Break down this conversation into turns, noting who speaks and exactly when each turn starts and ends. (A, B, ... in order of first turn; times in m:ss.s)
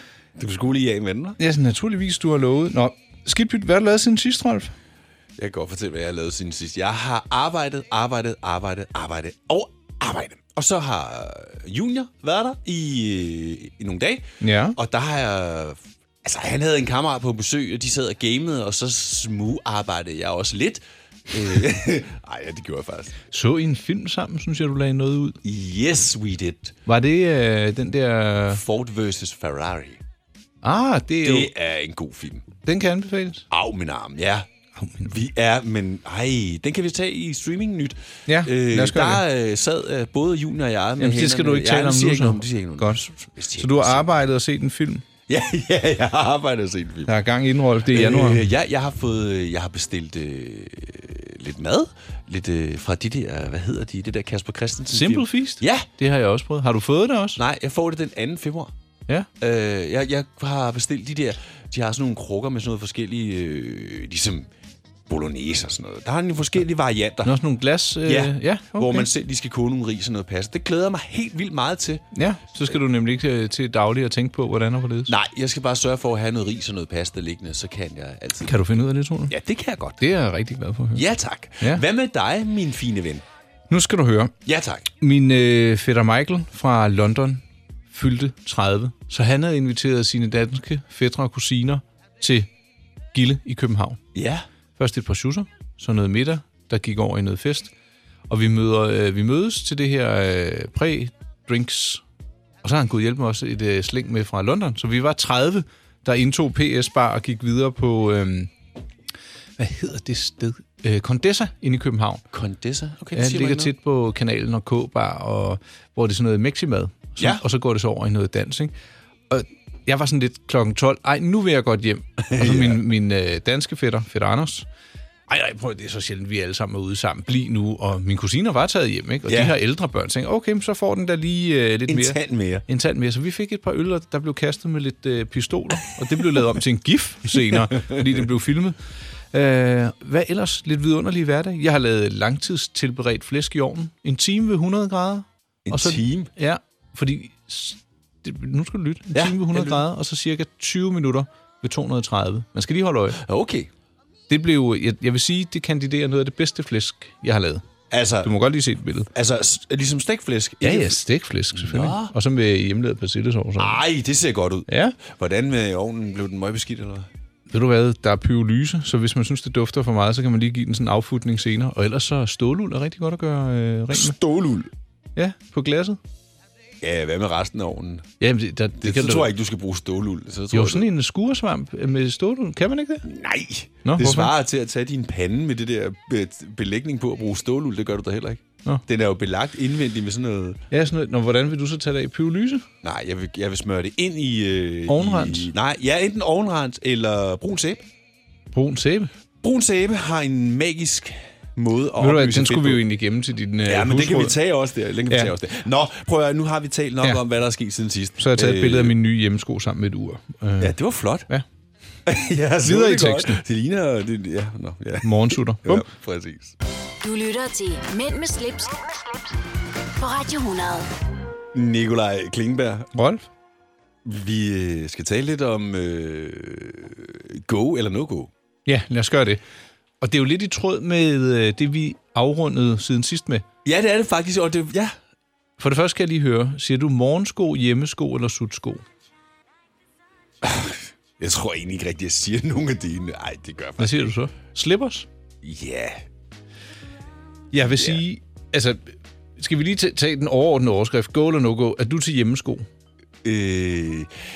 0:00.4-0:01.4 A
0:01.4-0:04.7 B
0:05.4-0:23.2 A
0:14.4-0:14.8 B
0:23.3-0:25.4 B
0:25.4-0:26.8 A
0:26.8-0:28.6 B
0:28.5-0:30.0 A
0:30.6-0:31.5 B
0:31.2-0:32.5 A
0:32.6-0:33.5 B
0:33.5-0:34.5 A
0:34.8-0:35.1 B
0:35.0-0:44.1 A
0:38.3-0:39.2 B
0:41.0-0:43.0 B
0:43.6-0:45.0 B
0:45.3-0:47.1 A
0:47.0-0:48.4 B
0:47.9-0:55.9 A
0:54.9-0:57.4 B
0:57.4-0:58.7 A
0:59.4-1:04.5 A
1:05.1-1:07.4 A
1:07.2-1:09.1 B
1:08.0-1:12.0 A
1:12.1-1:15.1 B
1:15.1-1:18.5 A
1:18.4-1:19.3 B
1:19.3-1:20.0 A
1:20.0-1:21.0 B
1:20.9-1:23.2 A
1:23.7-1:24.3 B
1:24.4-1:24.9 A
1:25.0-1:32.5 B
1:33.1-1:34.0 B
1:34.1-1:34.4 A
1:34.8-1:37.7 B
1:38.3-1:42.0 B
1:42.6-1:48.5 B
1:49.6-1:52.2 B
1:52.3-1:53.7 A
1:53.1-1:58.7 B
1:59.3-2:04.6 B
2:02.2-2:02.8 A
2:05.3-2:18.8 B
2:09.3-2:09.6 A
2:11.9-2:12.6 A
2:17.6-2:18.1 A
2:19.3-2:33.2 B
2:25.7-2:26.3 A
2:29.1-2:29.8 A
2:33.2-2:33.7 A
2:34.3-2:37.6 B
2:37.9-2:38.3 A
2:38.2-2:39.1 B
2:39.1-2:41.0 A
2:40.6-2:43.8 B
2:41.5-2:42.1 A
2:43.6-2:47.1 A
2:44.7-2:45.0 B
2:47.5-2:54.2 B
2:53.9-2:54.7 A
2:55.2-2:56.0 B
2:56.8-2:58.0 A
2:58.2-2:59.3 B
2:58.8-3:00.9 A
3:00.5-3:03.0 B
3:03.0-3:10.6 A
3:03.8-3:04.3 B
3:10.7-3:12.6 B
3:12.8-3:17.8 A
3:14.9-3:15.5 B
3:18.5-3:19.1 B
3:19.4-3:22.8 A
3:22.0-3:24.4 B
3:23.6-3:29.0 A
3:28.2-3:30.8 B
3:30.6-3:31.3 A
3:32.0-3:36.6 A
3:32.6-3:33.4 B
3:35.0-3:35.9 B
3:37.0-3:39.1 C
3:40.0-3:40.9 C
3:41.5-3:42.9 A
3:42.9-3:43.2 B
3:44.0-3:48.3 A
3:48.6-3:49.4 B
3:50.0-3:53.4 B
3:53.6-3:55.0 A
3:55.6-3:58.8 B
4:00.4-4:04.1 A
4:03.8-4:05.1 B
4:05.4-4:06.0 A
4:07.5-4:12.7 B
4:07.7-4:08.0 A
4:13.2-4:14.1 A